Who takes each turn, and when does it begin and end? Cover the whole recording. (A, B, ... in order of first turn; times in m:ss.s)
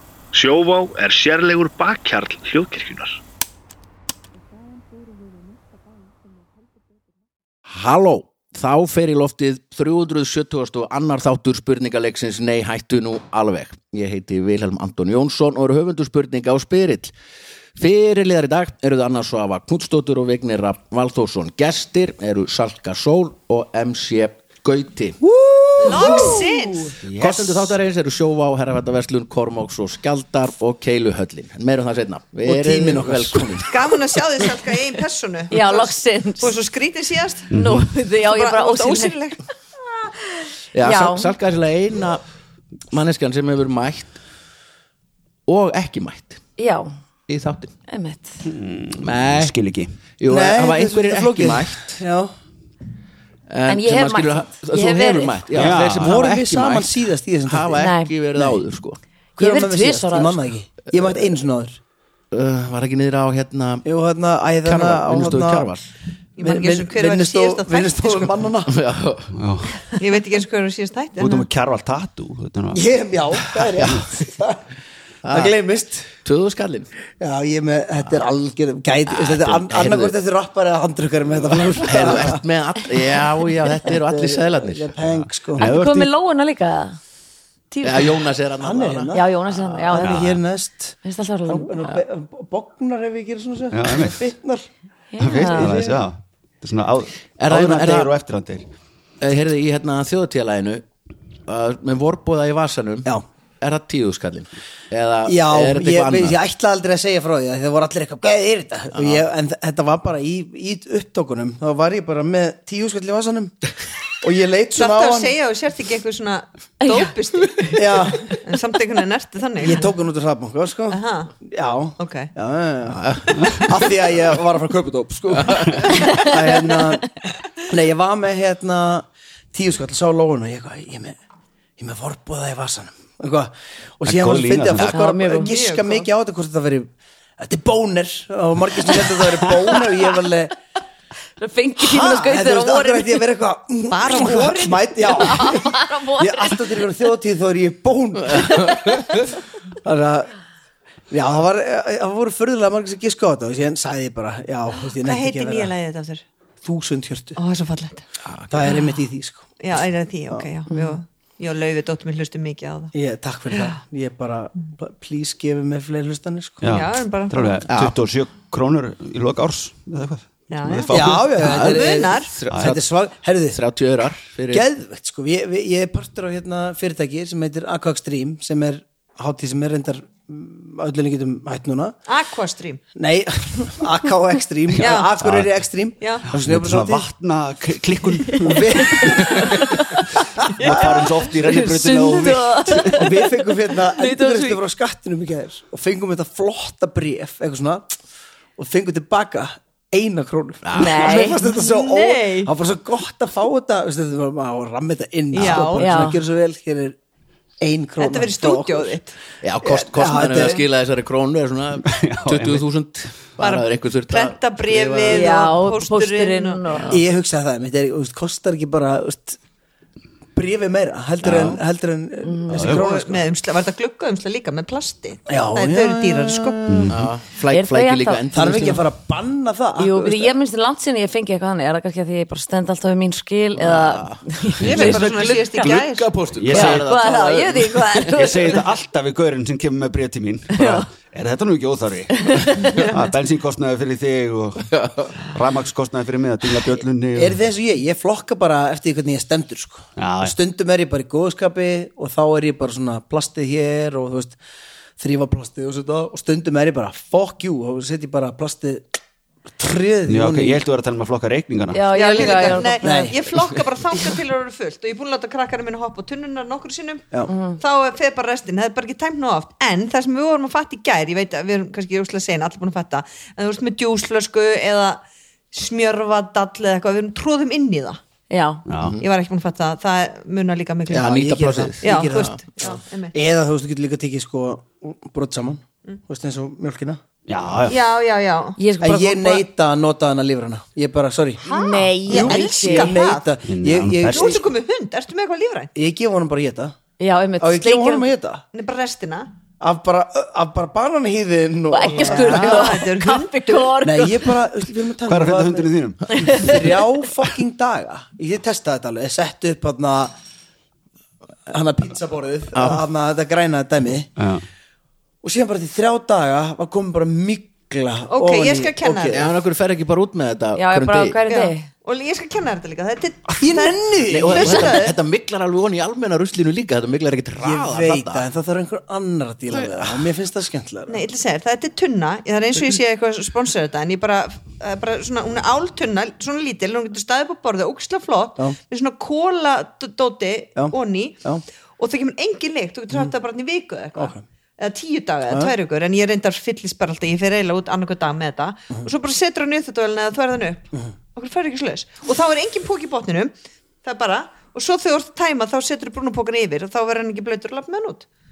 0:00.3-0:03.2 A
0:07.7-0:17.1 B
0:17.8-0:25.2 B
0:25.2-0:26.5 C
0:25.8-0:27.0 D
0:27.0-0:33.9 B
0:27.2-0:27.8 E
0:32.5-0:33.7 C
0:33.7-0:37.5 D
0:35.5-0:36.5 F
0:37.5-0:39.2 F
0:37.5-0:37.9 E
0:38.2-0:39.4 D
0:40.7-0:42.2 B
0:40.8-0:41.3 F
0:42.9-0:44.2 B
0:45.5-0:46.4 B
0:46.6-0:46.9 F
0:47.3-0:47.7 B
0:47.9-0:48.4 F
0:48.4-0:50.0 E
0:49.0-0:49.5 B
0:50.2-0:52.0 B
0:50.3-0:52.3 C
0:53.5-0:59.0 B
0:53.7-0:55.5 F
0:55.5-0:56.3 E
0:56.0-0:57.8 C
0:57.8-0:58.1 F
0:59.4-1:01.8 C
0:59.4-1:00.4 F
1:02.3-1:03.8 B
1:03.8-1:05.7 C
1:04.6-1:05.9 B
1:06.4-1:08.4 D
1:06.4-1:08.8 C
1:08.7-1:09.3 B
1:09.3-1:09.9 E
1:10.0-1:11.5 D
1:11.2-1:12.8 E
1:12.7-1:14.7 C
1:15.2-1:15.5 B
1:15.3-1:16.1 C
1:16.2-1:16.9 B
1:17.2-1:22.4 C
1:19.1-1:20.2 B
1:21.7-1:24.9 B
1:23.8-1:25.7 C
1:25.1-1:26.1 E
1:25.6-1:27.0 F
1:27.7-1:28.2 F
1:27.8-1:29.2 B
1:28.6-1:34.7 C
1:29.1-1:30.3 F
1:30.0-1:30.4 E
1:31.0-1:31.8 F
1:33.7-1:34.2 E
1:35.1-1:36.0 F
1:35.2-1:38.7 E
1:35.5-1:35.8 C
1:37.4-1:38.1 B
1:39.2-1:40.8 B
1:41.5-1:46.4 B
1:45.2-1:53.6 C
1:48.9-1:49.3 B
1:54.2-1:55.4 C
1:54.8-1:59.9 D
1:56.8-1:57.7 F
1:57.7-1:58.3 C
1:59.6-2:11.2 C
2:00.9-2:01.3 D
2:02.0-2:02.3 D
2:03.0-2:03.4 B
2:03.3-2:03.6 D
2:05.3-2:05.7 B
2:05.9-2:06.3 F
2:11.8-2:20.6 C
2:14.1-2:15.0 E
2:14.8-2:15.5 F
2:15.4-2:16.1 D
2:21.4-2:23.2 F
2:21.8-2:29.2 C
2:23.9-2:25.2 D
2:25.1-2:26.8 F
2:28.2-2:29.2 B
2:29.8-2:30.3 C
2:31.1-2:35.7 C
2:35.0-2:36.2 D
2:36.6-2:37.4 C
2:37.4-2:38.0 D
2:38.2-2:38.7 B
2:38.5-2:39.5 C
2:39.6-2:42.9 D
2:42.9-2:46.8 C
2:43.5-2:43.8 D
2:46.6-2:51.4 E
2:46.7-2:47.7 D
2:47.7-2:48.0 B
2:50.5-2:52.4 D
2:50.9-2:53.6 C
2:51.4-2:52.8 B
2:52.5-2:52.7 E
2:53.5-2:54.6 B
2:54.5-3:02.0 C
3:02.1-3:02.8 D
3:03.0-3:07.1 C
3:04.7-3:05.5 E
3:04.8-3:05.1 D
3:06.0-3:06.3 D
3:06.3-3:09.0 E
3:08.3-3:09.8 F
3:08.4-3:09.6 C
3:10.6-3:11.5 C
3:10.6-3:14.6 F
3:10.6-3:13.0 E
3:12.8-3:17.9 C
3:18.6-3:27.0 C
3:20.6-3:21.1 B
3:20.8-3:21.4 F
3:21.4-3:22.5 D
3:25.3-3:26.0 D
3:25.4-3:26.2 F
3:27.6-3:29.0 C
3:28.0-3:29.2 D
3:29.4-3:35.3 B
3:29.6-3:30.7 C
3:31.9-3:32.6 E
3:33.4-3:36.6 D
3:35.1-3:36.9 F
3:36.9-3:39.4 C
3:40.4-3:43.3 C
3:41.2-3:41.6 B
3:42.2-3:42.5 F
3:42.5-3:42.9 E
3:42.6-3:46.6 D
3:45.3-3:47.0 C
3:46.7-3:47.1 E
3:46.9-3:48.8 B
3:47.5-3:48.2 F
3:48.3-3:50.4 C
3:49.8-3:55.6 F
3:53.6-3:58.6 B
3:54.6-3:56.2 D
3:56.3-3:56.9 E
3:56.5-3:58.6 F
3:58.1-4:07.4 E
4:00.6-4:00.9 F
4:02.2-4:02.8 F
4:02.8-4:03.1 D
4:04.7-4:05.1 B
4:07.2-4:14.4 C
4:10.0-4:10.4 E
4:15.0-4:19.0 C
4:19.6-4:20.6 C
4:20.1-4:22.6 E
4:21.7-4:23.1 F
4:21.9-4:27.1 D
4:22.8-4:23.3 C
4:27.3-4:27.6 F
4:27.6-4:38.0 D
4:38.3-4:38.6 F
4:38.7-4:39.0 E
4:39.0-4:41.1 D
4:40.9-4:42.8 B
4:40.9-4:47.0 C
4:41.8-4:43.1 D
4:47.3-4:47.8 E
4:47.7-4:48.6 D
4:48.6-4:49.5 F
4:48.8-4:51.4 C
4:51.4-4:53.3 D
4:51.5-4:53.0 F
4:52.0-4:54.4 C
4:53.5-4:54.4 E
4:54.1-4:55.7 D
4:55.8-4:56.8 C
4:57.0-4:58.1 F
4:57.4-4:58.4 C
4:58.5-4:59.3 D
4:59.6-5:02.8 C
5:01.7-5:04.3 F
5:01.9-5:03.7 D
5:03.8-5:10.1 C
5:05.1-5:06.7 E
5:11.5-5:14.1 C
5:12.5-5:12.8 B
5:14.2-5:14.4 E
5:15.2-5:19.2 C
5:18.1-5:19.4 D
5:19.1-5:21.2 B
5:20.6-5:21.7 F
5:21.3-5:24.9 D
5:23.4-5:24.9 C
5:24.1-5:28.3 B
5:27.4-5:31.0 C
5:29.5-5:30.1 B
5:30.9-5:41.3 D
5:40.6-5:41.4 C
5:41.8-5:53.3 D
5:44.0-5:44.2 C
5:53.8-5:58.1 D